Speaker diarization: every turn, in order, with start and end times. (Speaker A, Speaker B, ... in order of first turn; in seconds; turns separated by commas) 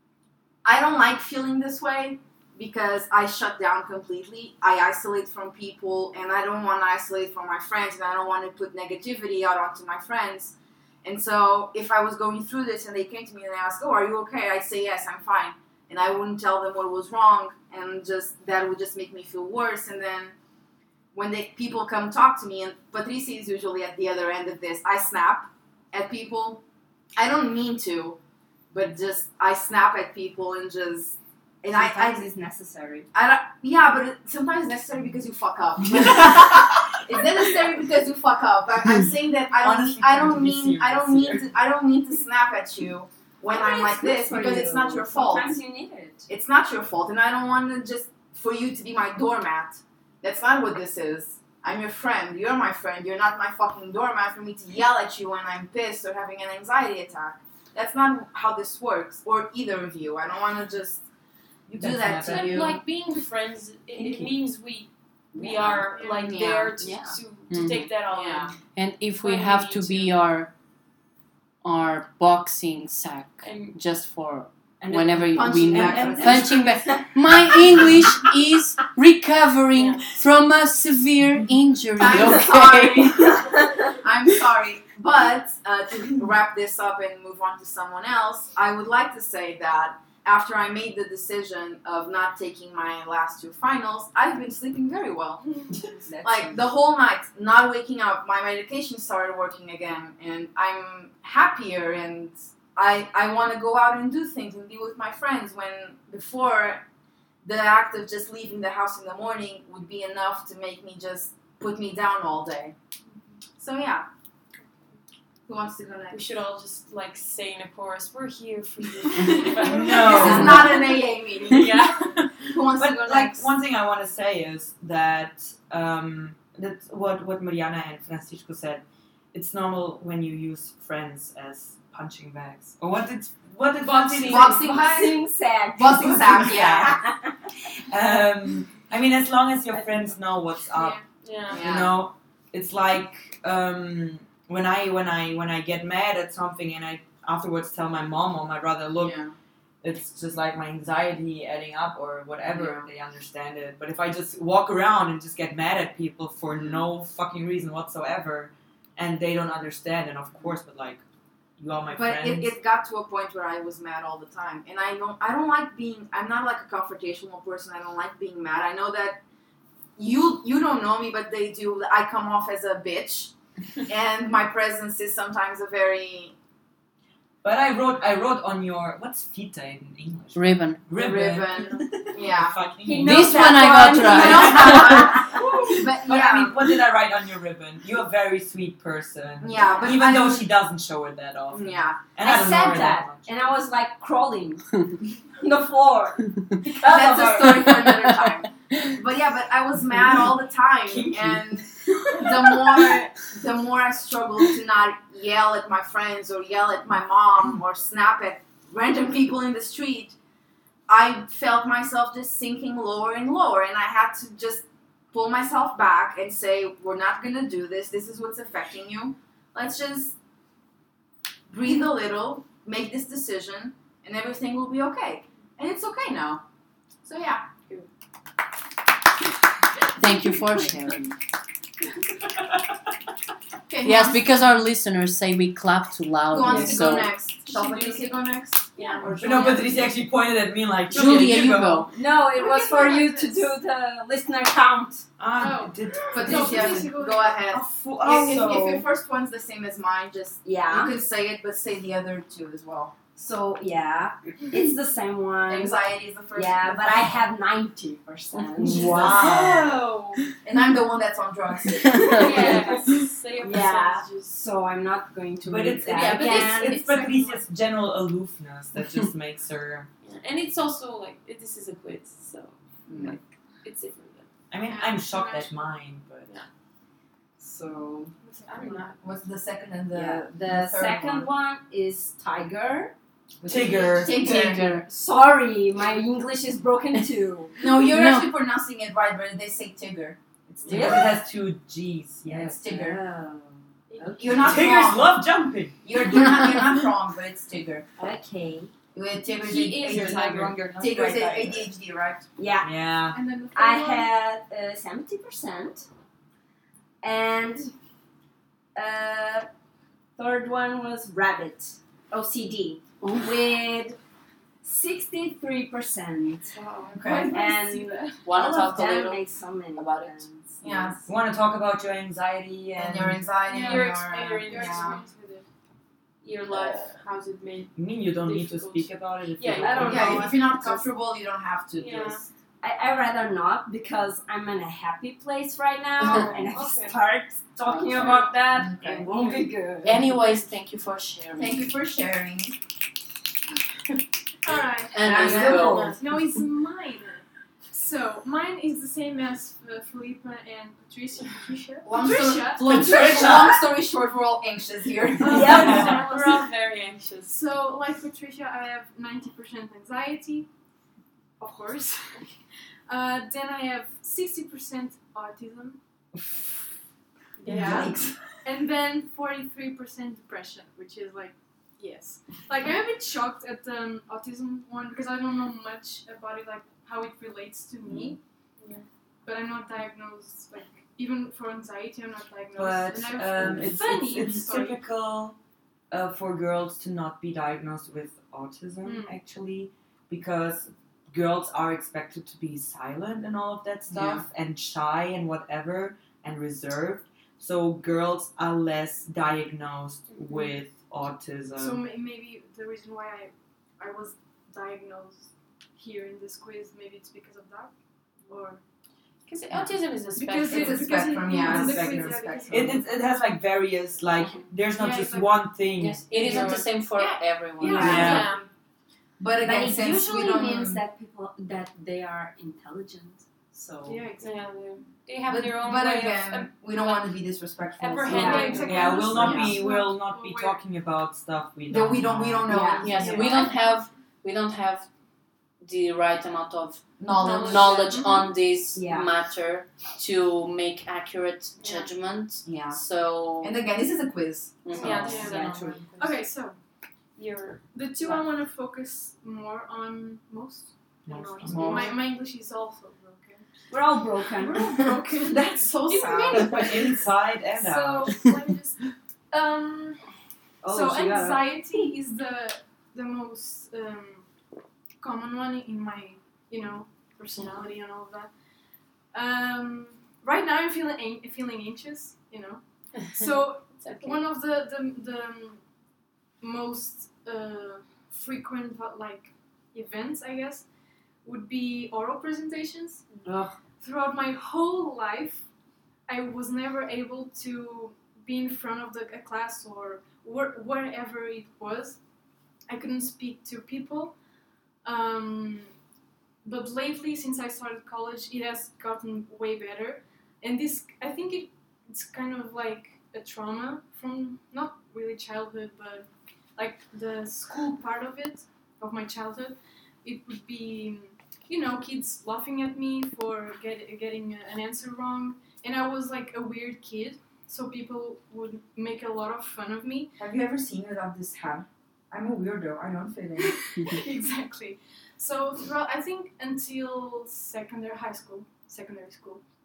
Speaker A: 0.6-20.3, Speaker A: 21.1-26.6, Speaker A: 27.2-28.2, Speaker A: 28.7-32.3, Speaker B: 31.7-33.1, Speaker A: 33.1-45.6, Speaker C: 39.6-41.5, Speaker B: 43.5-46.3, Speaker A: 46.3-61.1, Speaker A: 61.7-62.8, Speaker C: 61.8-62.8, Speaker D: 62.3-68.5, Speaker C: 64.0-64.3, Speaker B: 65.3-65.9, Speaker E: 65.9-66.4, Speaker A: 65.9-66.7, Speaker B: 66.8-67.2, Speaker F: 67.5-67.9, Speaker A: 68.1-68.5, Speaker F: 68.8-70.5, Speaker D: 69.2-70.2, Speaker F: 71.6-83.4, Speaker D: 73.4-73.8, Speaker C: 74.8-76.6, Speaker A: 75.3-76.8, Speaker D: 79.8-80.0, Speaker A: 82.0-95.6, Speaker B: 83.2-83.9, Speaker B: 96.0-96.6, Speaker A: 96.2-106.8, Speaker A: 107.4-112.8, Speaker A: 113.6-114.1, Speaker A: 115.5-116.2, Speaker D: 116.1-122.5, Speaker A: 119.4-123.5, Speaker C: 119.5-120.8, Speaker B: 120.0-120.7, Speaker C: 122.8-134.6, Speaker D: 133.8-134.7, Speaker A: 134.2-136.9, Speaker B: 134.5-137.3, Speaker C: 136.1-137.0, Speaker C: 137.6-149.2, Speaker D: 141.2-141.6, Speaker A: 141.5-142.0, Speaker A: 148.9-149.3, Speaker C: 149.8-161.0, Speaker A: 152.4-152.9, Speaker A: 156.5-156.8, Speaker C: 161.6-162.5, Speaker A: 161.9-169.2, Speaker A: 170.0-173.3, Speaker A: 173.9-176.3, Speaker C: 177.4-193.3, Speaker F: 180.3-180.8, Speaker A: 180.9-182.7, Speaker B: 182.8-185.4, Speaker F: 183.0-185.2, Speaker A: 183.9-186.8, Speaker A: 189.4-190.5, Speaker A: 191.5-192.4, Speaker B: 192.2-194.8, Speaker B: 195.3-198.1, Speaker A: 196.7-210.2, Speaker C: 200.9-201.4, Speaker A: 210.9-220.2, Speaker A: 221.5-226.4, Speaker A: 227.0-227.5, Speaker F: 230.0-231.2, Speaker E: 233.7-234.3, Speaker F: 233.8-237.1, Speaker A: 236.3-239.4, Speaker B: 236.4-237.0, Speaker D: 237.5-238.0, Speaker D: 238.8-239.1, Speaker E: 238.8-239.1, Speaker B: 238.9-239.6, Speaker C: 239.1-241.9, Speaker F: 240.9-241.9, Speaker B: 241.9-245.0, Speaker E: 242.3-243.5, Speaker C: 245.2-246.9, Speaker E: 245.4-247.4, Speaker A: 246.1-252.9, Speaker C: 247.5-248.9, Speaker E: 248.2-248.6, Speaker B: 250.4-250.9, Speaker B: 253.1-255.8, Speaker A: 255.5-257.2, Speaker B: 256.3-259.5, Speaker C: 258.6-259.8, Speaker A: 258.6-259.7, Speaker D: 259.5-260.1, Speaker A: 260.4-262.6, Speaker B: 262.0-266.9, Speaker D: 262.1-264.4, Speaker C: 265.4-269.9, Speaker E: 265.9-267.4, Speaker D: 270.0-274.3, Speaker A: 272.9-273.2, Speaker C: 274.5-276.3, Speaker E: 274.6-275.5, Speaker A: 277.4-278.1, Speaker E: 278.2-278.9, Speaker D: 278.5-279.0, Speaker A: 279.0-281.3, Speaker B: 279.9-282.9, Speaker A: 283.4-284.6, Speaker C: 283.5-284.2, Speaker B: 283.7-287.6, Speaker F: 284.1-284.9, Speaker A: 287.6-291.2, Speaker F: 287.8-288.3, Speaker B: 290.6-291.2, Speaker C: 290.6-292.5, Speaker B: 292.2-295.0, Speaker A: 292.5-293.0, Speaker D: 293.9-294.4, Speaker A: 294.2-295.2, Speaker C: 294.3-296.0, Speaker A: 295.8-297.9, Speaker B: 298.0-298.7, Speaker A: 298.9-302.2, Speaker D: 299.4-301.2, Speaker C: 299.8-301.6, Speaker B: 302.4-302.8, Speaker C: 302.6-303.2, Speaker E: 303.1-304.1, Speaker B: 303.5-305.9, Speaker B: 307.0-307.7, Speaker B: 308.8-309.5, Speaker B: 310.2-314.0, Speaker F: 313.0-313.4, Speaker B: 314.6-316.5, Speaker D: 316.5-316.9, Speaker E: 316.9-318.3, Speaker A: 316.9-317.4, Speaker B: 317.3-321.0, Speaker F: 318.2-319.2, Speaker F: 319.8-320.3, Speaker A: 320.6-321.0, Speaker C: 321.0-323.2, Speaker A: 322.8-325.0, Speaker E: 323.5-325.5, Speaker D: 323.5-325.1, Speaker D: 326.2-330.4, Speaker B: 326.5-326.8, Speaker C: 327.8-330.4, Speaker B: 329.5-330.9, Speaker A: 329.9-332.3, Speaker D: 331.8-332.2, Speaker B: 332.6-340.1, Speaker D: 336.0-337.0, Speaker A: 338.5-339.1, Speaker D: 339.1-339.4, Speaker F: 339.8-341.6, Speaker A: 341.4-342.5, Speaker E: 344.4-353.0, Speaker F: 344.9-346.0, Speaker A: 345.0-346.0, Speaker B: 345.0-346.0, Speaker A: 351.9-355.9, Speaker C: 352.6-353.6, Speaker E: 355.2-356.5, Speaker B: 355.2-356.0, Speaker C: 355.4-355.9, Speaker D: 355.5-357.4, Speaker E: 357.3-360.5, Speaker E: 361.4-362.3, Speaker E: 362.9-365.8, Speaker D: 367.4-367.9, Speaker E: 367.4-367.9, Speaker A: 367.5-368.2, Speaker E: 368.4-378.2, Speaker D: 378.6-378.9, Speaker E: 379.2-384.8, Speaker C: 382.5-385.4, Speaker C: 385.9-401.8, Speaker E: 388.8-389.1, Speaker A: 393.9-394.2, Speaker E: 401.6-407.7, Speaker E: 408.3-408.6, Speaker D: 409.3-411.0, Speaker A: 410.2-412.8, Speaker E: 410.2-412.9, Speaker C: 411.3-416.6, Speaker E: 414.8-415.4, Speaker F: 415.8-418.1, Speaker D: 416.1-416.6, Speaker E: 416.1-418.4, Speaker A: 417.6-418.2, Speaker B: 417.6-418.2, Speaker C: 417.7-418.3, Speaker D: 417.9-418.4, Speaker A: 419.2-420.8, Speaker B: 419.4-424.0, Speaker E: 423.9-424.5, Speaker D: 424.2-427.1, Speaker A: 425.3-429.6, Speaker D: 427.8-429.1, Speaker B: 428.1-428.6, Speaker E: 428.1-430.6, Speaker C: 428.4-432.5, Speaker A: 431.7-433.5, Speaker B: 432.4-433.1, Speaker F: 432.8-434.9, Speaker E: 433.0-433.5, Speaker F: 435.6-443.6, Speaker A: 437.0-437.9, Speaker D: 437.2-438.1, Speaker B: 438.7-439.1, Speaker D: 441.6-441.9, Speaker A: 442.5-442.8, Speaker A: 443.4-444.8, Speaker F: 444.6-445.6, Speaker D: 444.7-446.2, Speaker B: 445.1-445.8, Speaker E: 446.0-446.6, Speaker D: 447.2-447.6, Speaker E: 447.7-453.4, Speaker C: 451.1-451.9, Speaker A: 451.5-451.9, Speaker D: 451.5-451.8, Speaker B: 453.7-454.8, Speaker E: 454.2-460.0, Speaker A: 454.8-456.9, Speaker C: 456.3-458.3, Speaker B: 460.6-461.6, Speaker E: 460.6-464.2, Speaker E: 465.0-468.3, Speaker E: 469.1-475.6, Speaker D: 473.8-474.2, Speaker E: 476.4-480.6, Speaker E: 481.2-483.0, Speaker F: 483.2-483.5, Speaker E: 483.8-485.5, Speaker E: 486.1-492.0, Speaker E: 492.7-494.1, Speaker E: 494.8-495.7, Speaker E: 496.4-520.1, Speaker A: 520.2-523.7, Speaker E: 523.4-529.4